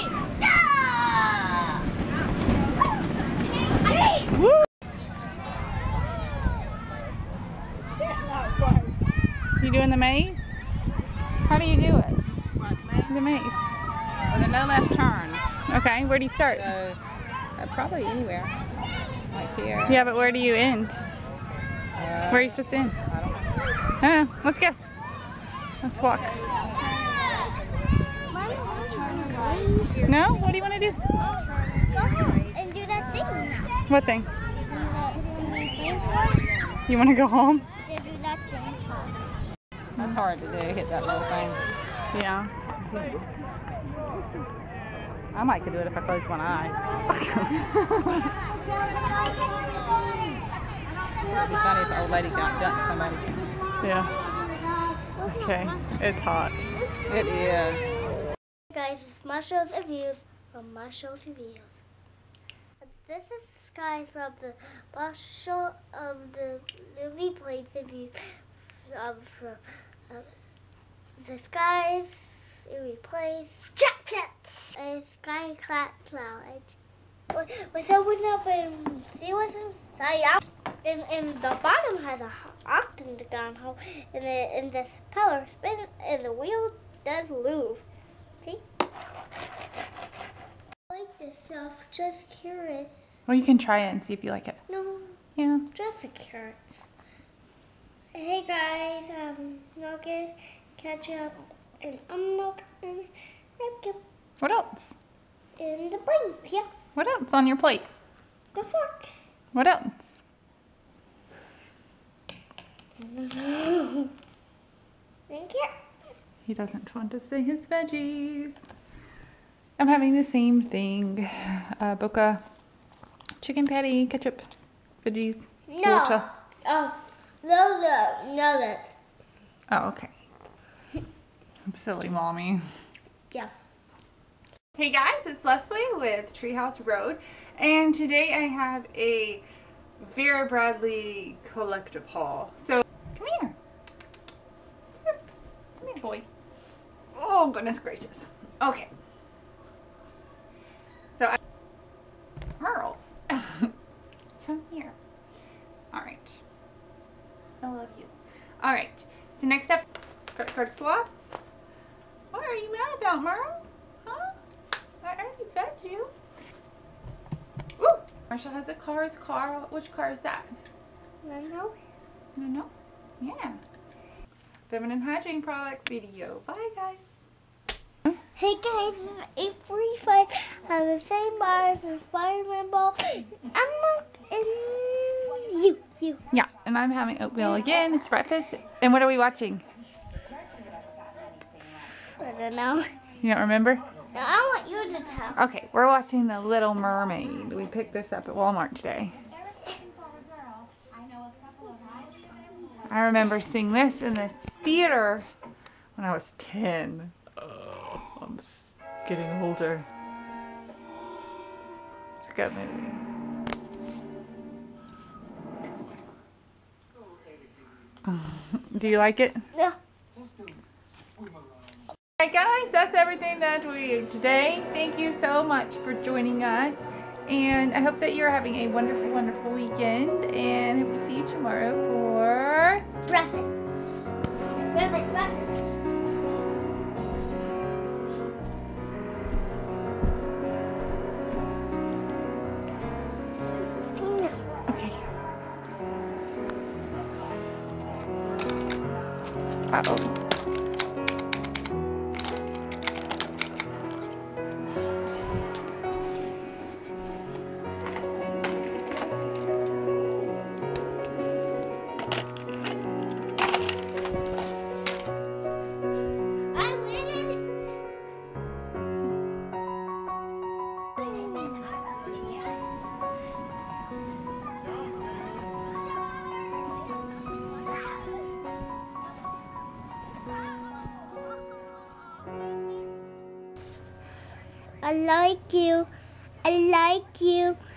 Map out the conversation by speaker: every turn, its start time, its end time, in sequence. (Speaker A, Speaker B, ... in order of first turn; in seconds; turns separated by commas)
Speaker A: 0.8-1.6, Speaker B: 4.3-4.6, Speaker B: 9.6-10.4, Speaker B: 11.4-12.2, Speaker B: 13.1-13.6, Speaker C: 14.3-15.4, Speaker B: 15.4-16.8, Speaker C: 16.5-17.0, Speaker C: 17.6-18.5, Speaker C: 19.3-20.0, Speaker B: 19.8-21.0, Speaker C: 21.9-23.6, Speaker B: 22.3-23.0, Speaker B: 24.0-24.8, Speaker B: 25.8-26.4, Speaker A: 26.9-27.5, Speaker A: 28.3-30.1, Speaker B: 30.1-31.0, Speaker A: 31.2-33.7, Speaker B: 33.9-34.3, Speaker A: 34.6-36.5, Speaker B: 36.9-37.6, Speaker A: 37.8-39.2, Speaker C: 40.0-41.6, Speaker B: 42.1-42.5, Speaker C: 45.3-46.8, Speaker B: 47.1-48.3, Speaker C: 51.3-53.2, Speaker A: 53.4-55.6, Speaker B: 53.8-54.1, Speaker B: 55.3-56.7, Speaker C: 57.1-57.9, Speaker A: 58.7-61.8, Speaker A: 62.8-70.3, Speaker A: 71.2-76.8, Speaker A: 77.3-87.8, Speaker A: 90.9-93.0, Speaker B: 93.3-94.6, Speaker A: 94.7-95.2, Speaker B: 95.4-95.7, Speaker A: 95.7-96.8, Speaker A: 98.1-104.0, Speaker B: 104.4-104.9, Speaker A: 105.6-106.7, Speaker B: 107.0-107.9, Speaker A: 108.5-109.1, Speaker B: 109.5-110.0, Speaker A: 113.0-114.1, Speaker A: 115.3-115.7, Speaker B: 116.5-118.6, Speaker B: 119.8-122.4, Speaker B: 123.4-124.4, Speaker B: 125.0-126.2, Speaker A: 125.7-128.9, Speaker B: 129.7-130.1, Speaker B: 131.7-132.6, Speaker B: 134.7-139.4, Speaker B: 140.0-143.5, Speaker B: 145.7-146.3, Speaker B: 147.1-148.9, Speaker B: 152.6-153.7, Speaker B: 154.4-154.9, Speaker B: 155.9-156.4, Speaker B: 157.6-161.3, Speaker B: 162.3-164.3, Speaker B: 165.0-166.1, Speaker B: 167.8-170.6, Speaker A: 171.2-171.7, Speaker B: 172.3-173.6, Speaker B: 174.7-177.2, Speaker A: 178.3-186.2, Speaker B: 186.3-189.6, Speaker A: 192.2-192.9, Speaker B: 193.2-193.8, Speaker A: 194.1-195.4, Speaker B: 195.3-199.2, Speaker B: 202.8-205.3, Speaker B: 205.9-209.8, Speaker B: 212.2-213.0, Speaker B: 218.0-219.4, Speaker B: 222.2-232.8, Speaker A: 233.1-233.6, Speaker A: 234.6-235.5, Speaker A: 243.4-244.4, Speaker B: 244.7-245.0, Speaker B: 249.7-250.1, Speaker A: 266.5-267.4, Speaker A: 271.0-272.5, Speaker A: 284.8-285.9, Speaker A: 286.4-287.6